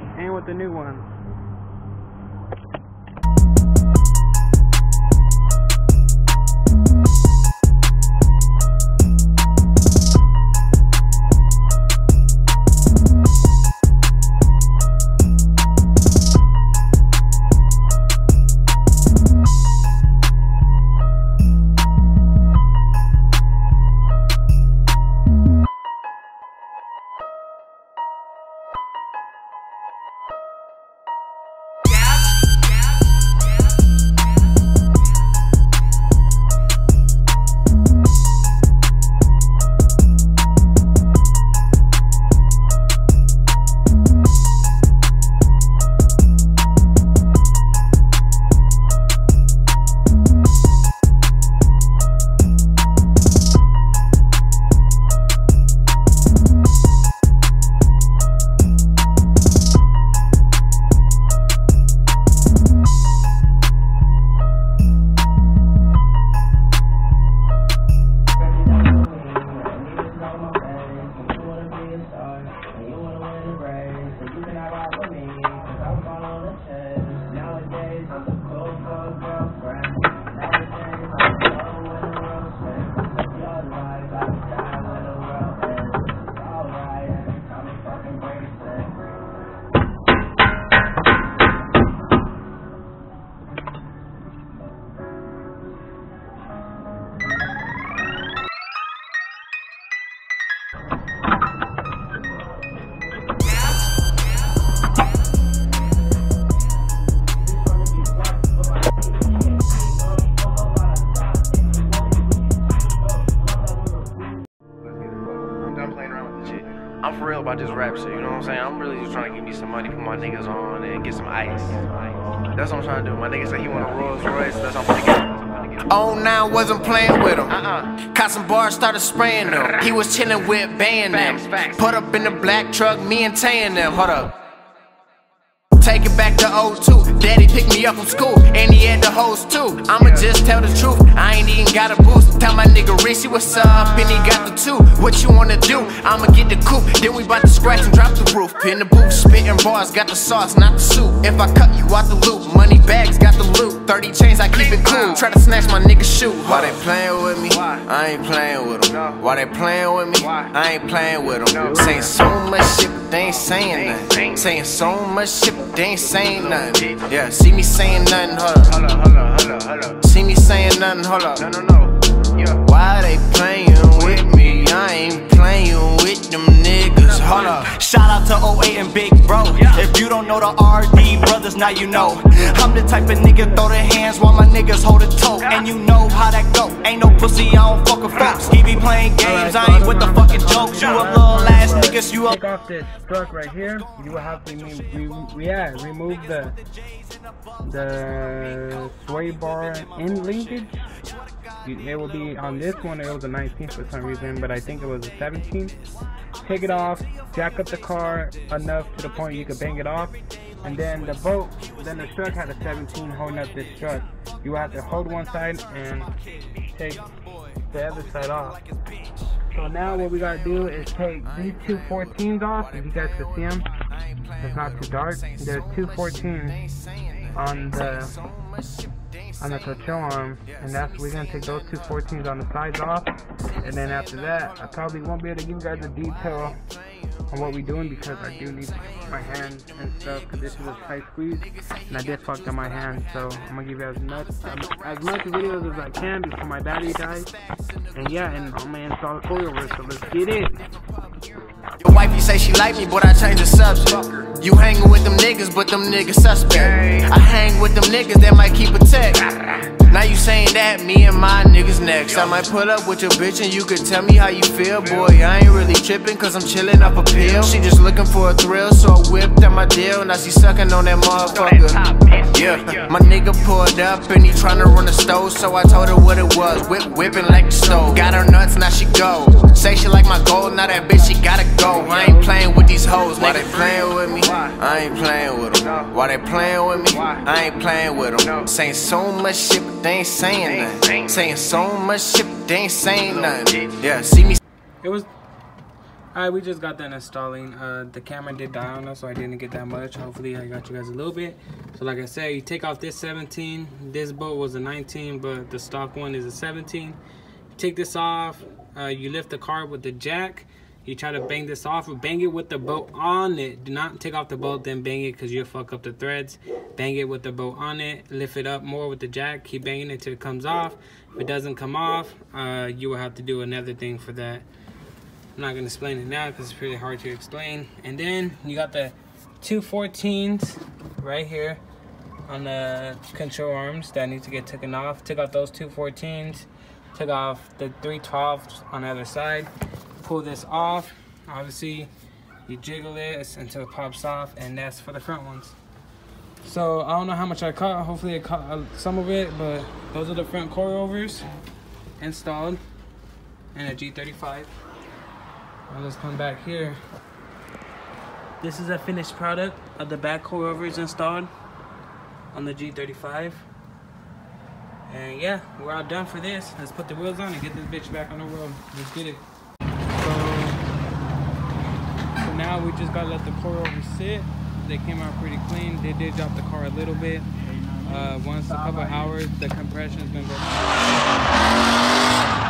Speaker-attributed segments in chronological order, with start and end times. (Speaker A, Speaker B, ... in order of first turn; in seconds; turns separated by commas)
Speaker A: 0.1-1.1, Speaker A: 73.8-75.8, Speaker A: 76.4-78.3, Speaker A: 80.5-81.0, Speaker A: 83.4-85.1, Speaker A: 87.1-87.4, Speaker B: 115.6-122.0, Speaker B: 122.5-125.8, Speaker C: 125.9-134.3, Speaker C: 135.8-168.8, Speaker B: 168.8-169.9, Speaker C: 170.0-171.5, Speaker B: 171.5-172.6, Speaker C: 172.6-177.7, Speaker B: 177.1-177.6, Speaker D: 177.6-192.4, Speaker A: 189.2-196.6, Speaker A: 197.6-200.8, Speaker A: 201.6-205.8, Speaker A: 206.4-216.1, Speaker A: 216.7-217.1, Speaker A: 217.7-218.6, Speaker A: 219.5-223.7, Speaker A: 224.4-226.6, Speaker A: 227.3-228.2, Speaker A: 229.4-236.6, Speaker A: 237.3-247.3, Speaker A: 247.9-250.6, Speaker C: 251.8-259.3, Speaker C: 259.8-294.4, Speaker B: 271.8-272.3, Speaker A: 281.8-282.3, Speaker B: 290.8-291.1, Speaker B: 293.2-293.7, Speaker A: 294.8-295.1, Speaker A: 296.1-307.0, Speaker A: 307.5-324.4, Speaker A: 325.4-331.6, Speaker A: 332.2-339.5, Speaker A: 340.0-341.9, Speaker A: 342.4-345.6, Speaker A: 346.4-351.2, Speaker A: 352.0-352.6, Speaker A: 353.5-354.5, Speaker A: 355.7-356.8, Speaker A: 358.4-361.3, Speaker A: 362.3-363.5, Speaker A: 364.9-369.2, Speaker A: 369.9-370.6, Speaker A: 372.2-377.3, Speaker A: 377.8-381.0